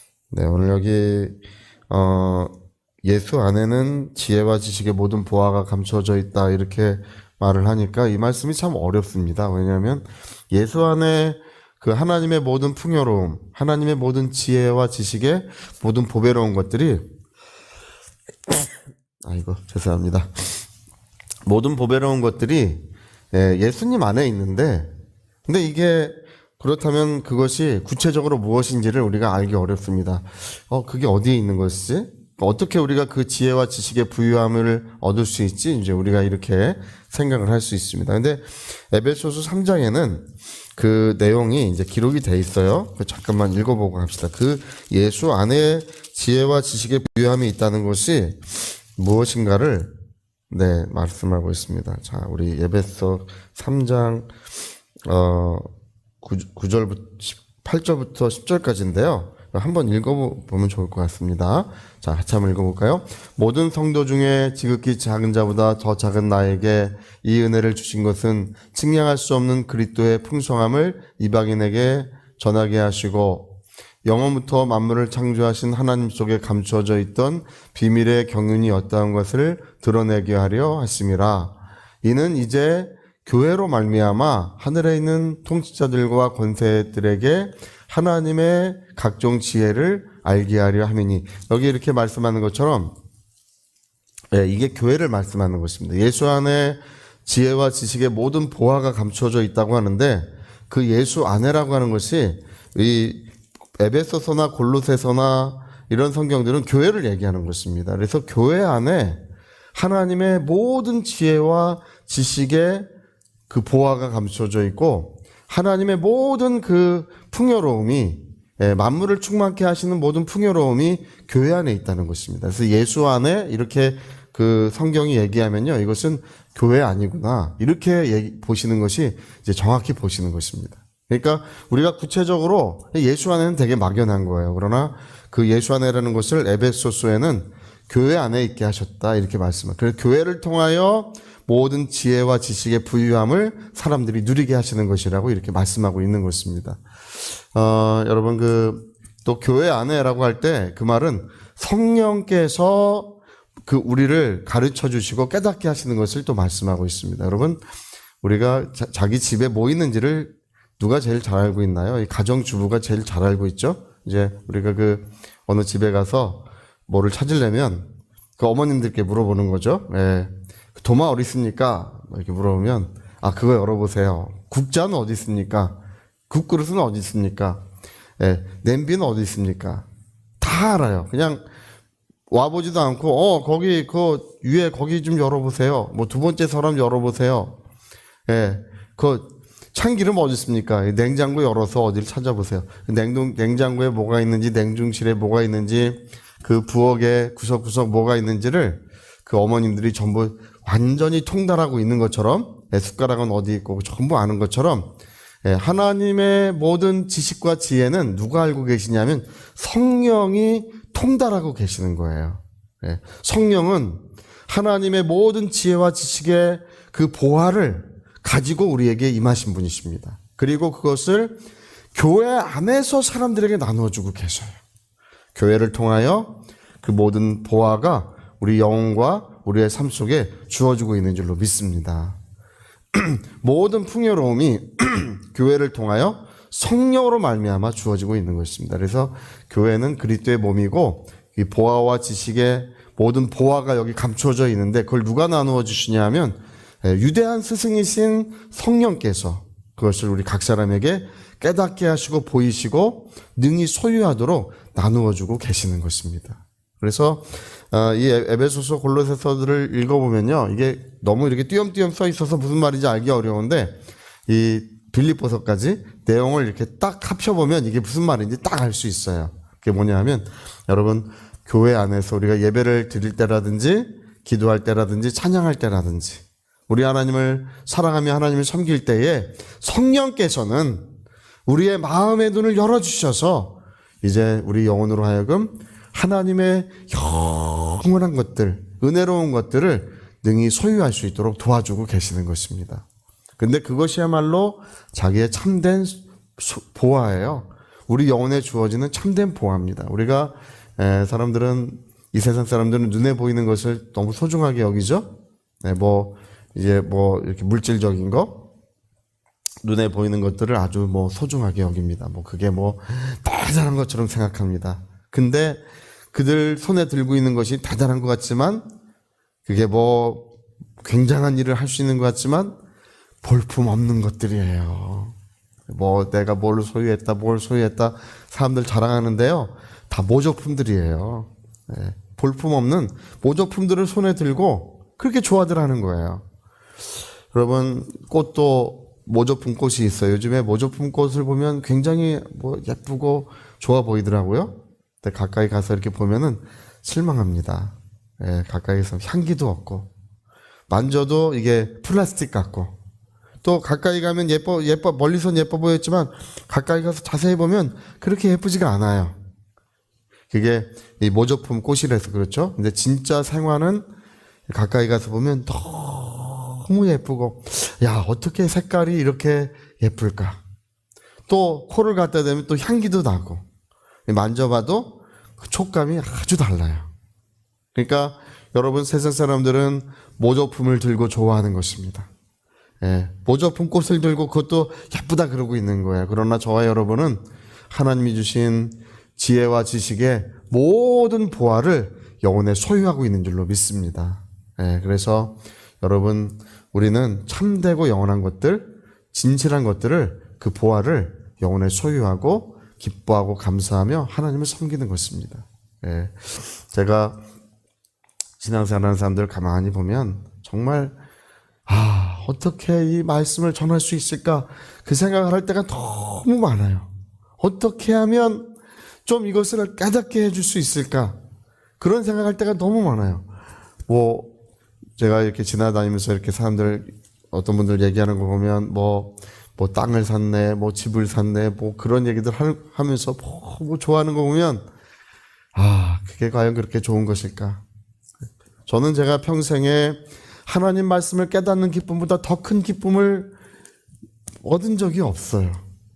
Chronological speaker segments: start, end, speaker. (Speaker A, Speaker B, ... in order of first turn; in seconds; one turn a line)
Speaker A: 0.3-1.4
Speaker A: 1.9-2.5
Speaker A: 3.0-17.0
Speaker A: 19.2-20.6
Speaker A: 21.5-22.8
Speaker A: 23.3-24.9
Speaker A: 25.5-48.4
Speaker A: 49.0-49.9
Speaker A: 50.5-54.3
Speaker A: 55.1-55.7
Speaker A: 56.2-73.5
Speaker A: 74.0-92.9
Speaker A: 94.3-103.2
Speaker A: 103.8-109.2
Speaker A: 109.8-112.9
Speaker A: 113.5-146.8
Speaker A: 147.5-153.1
Speaker A: 153.7-157.6
Speaker A: 158.2-175.8
Speaker A: 176.3-177.6
Speaker A: 178.2-179.9
Speaker A: 180.4-181.4
Speaker A: 182.3-187.6
Speaker A: 188.3-204.9
Speaker A: 205.4-221.4
Speaker A: 221.9-224.6
Speaker A: 225.3-232.2
Speaker A: 232.9-263.7
Speaker A: 264.3-280.9
Speaker A: 281.5-292.9
Speaker A: 293.4-305.1
Speaker A: 305.6-308.4
Speaker A: 309.6-315.6
Speaker A: 316.1-318.6
Speaker A: 319.4-320.2
Speaker A: 320.8-322.6
Speaker A: 323.2-325.1
Speaker A: 325.7-336.2
Speaker A: 337.3-349.9
Speaker A: 350.7-352.7
Speaker A: 353.4-359.1
Speaker A: 360.3-363.9
Speaker A: 364.5-370.4
Speaker A: 371.3-373.4
Speaker A: 374.1-376.9
Speaker A: 377.8-382.1
Speaker A: 382.8-407.2
Speaker A: 408.4-410.9
Speaker A: 411.7-418.5
Speaker A: 419.1-421.2
Speaker A: 421.8-423.2
Speaker A: 423.9-424.3
Speaker A: 425.0-434.7
Speaker A: 435.6-437.6
Speaker A: 438.7-443.3
Speaker A: 444.4-445.6